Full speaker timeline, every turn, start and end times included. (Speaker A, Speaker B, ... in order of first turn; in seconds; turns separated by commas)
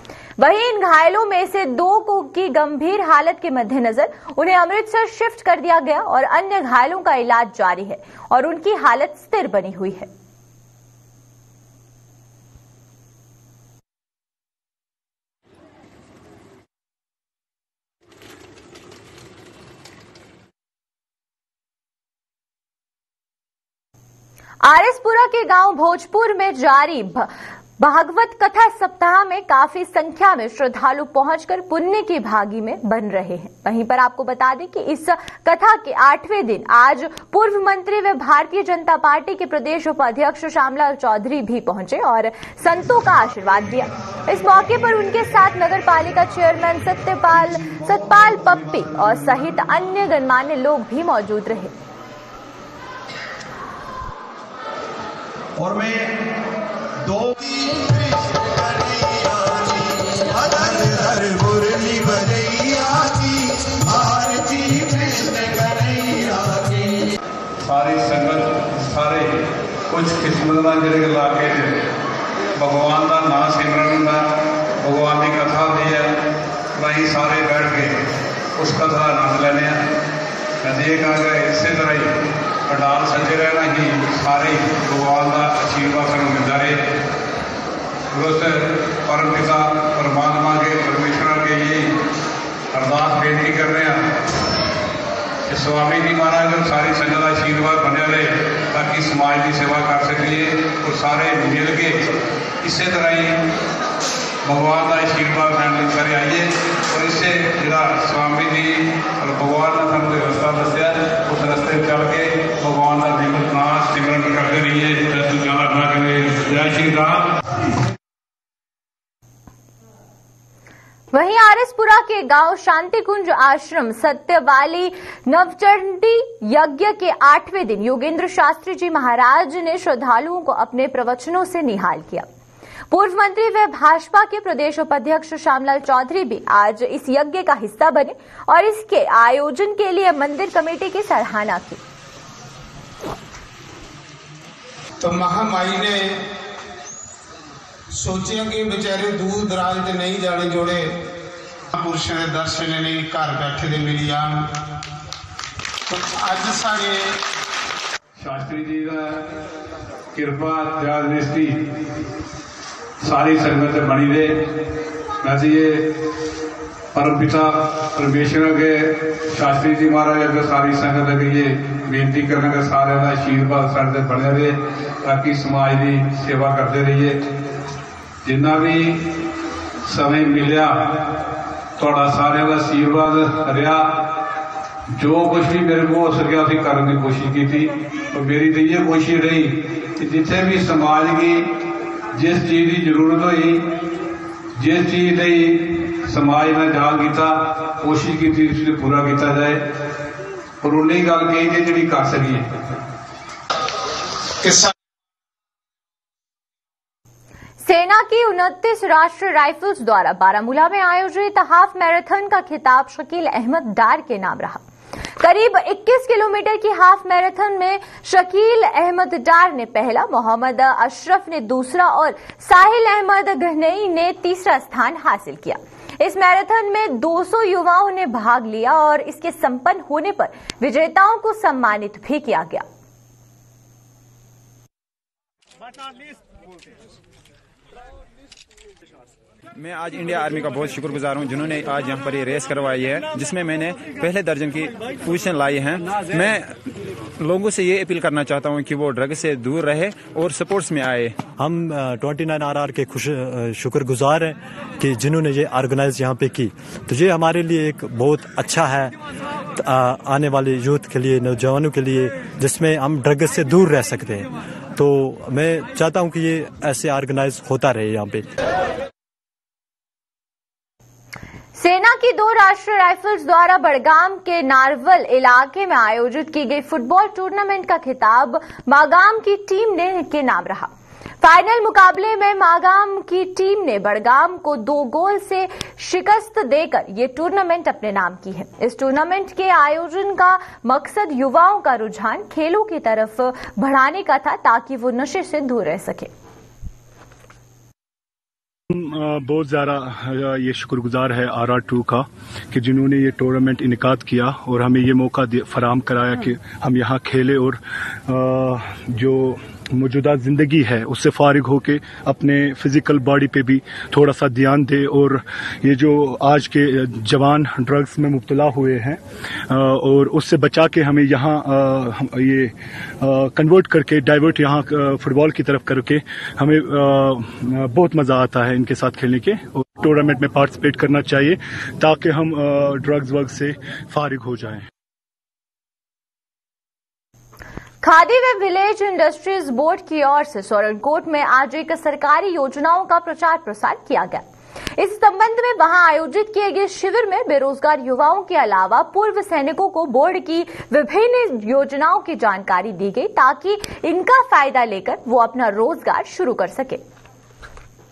Speaker A: 0.4-10.1, Speaker A: 24.6-51.7, Speaker B: 55.6-56.0, Speaker B: 57.1-59.7, Speaker B: 60.4-66.9, Speaker C: 67.6-71.9, Speaker C: 72.5-76.2, Speaker C: 76.7-78.0, Speaker C: 78.5-79.9, Speaker C: 80.6-86.8, Speaker C: 88.1-92.0, Speaker C: 92.7-94.0, Speaker C: 95.5-103.4, Speaker C: 104.4-117.3, Speaker A: 121.1-132.3, Speaker A: 132.9-141.8, Speaker D: 145.0-146.2, Speaker D: 147.9-151.0, Speaker D: 151.7-154.5, Speaker D: 155.9-157.2, Speaker C: 158.2-159.3, Speaker C: 160.1-161.6, Speaker C: 163.0-164.6, Speaker C: 165.2-165.9, Speaker C: 166.9-177.2, Speaker C: 178.2-179.1, Speaker C: 179.8-181.1, Speaker C: 181.8-184.1, Speaker C: 184.9-191.5, Speaker C: 192.1-193.7, Speaker C: 194.6-199.6, Speaker C: 200.6-202.7, Speaker D: 204.4-204.7, Speaker A: 207.6-214.6, Speaker A: 215.2-232.6, Speaker E: 239.6-246.5, Speaker E: 247.2-251.2, Speaker F: 251.2-258.9, Speaker F: 259.5-268.3, Speaker A: 271.6-280.7, Speaker A: 281.2-296.1, Speaker G: 298.7-334.6, Speaker A: 337.8-344.2, Speaker A: 344.8-356.8